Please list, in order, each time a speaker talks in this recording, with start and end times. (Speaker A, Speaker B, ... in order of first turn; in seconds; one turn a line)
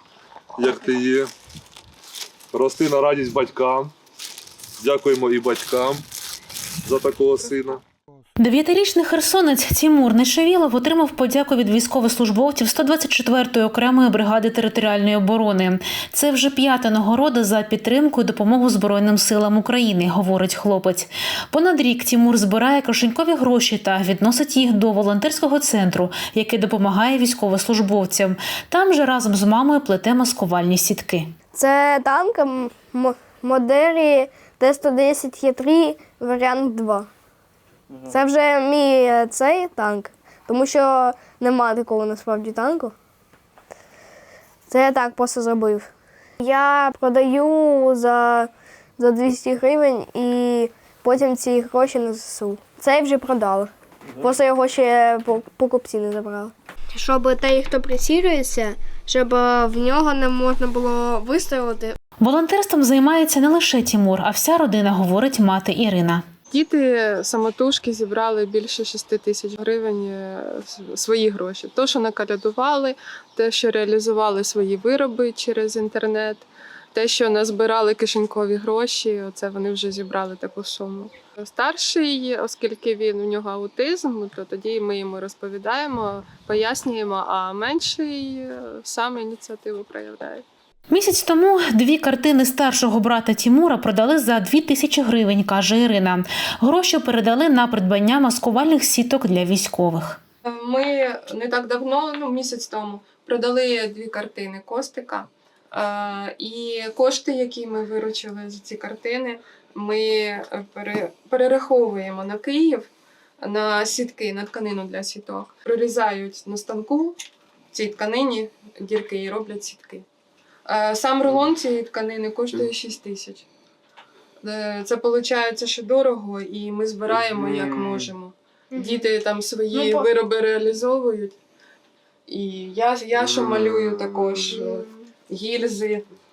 Speaker A: 0.6-1.3
Speaker A: 2.5-3.9
Speaker A: 4.8-6.0
Speaker A: 6.8-7.8
Speaker B: 8.4-31.3
Speaker C: 31.5-37.1
Speaker C: 38.1-42.9
Speaker C: 44.7-45.9
Speaker C: 46.4-62.0
Speaker B: 62.2-66.2
Speaker D: 66.5-90.5
Speaker B: 90.9-100.2
Speaker D: 100.4-112.9
Speaker D: 113.4-117.2
Speaker D: 117.7-120.1
Speaker D: 120.7-123.5
Speaker D: 124.4-131.4
Speaker C: 128.7-129.1
Speaker C: 129.7-130.1
Speaker D: 132.3-136.1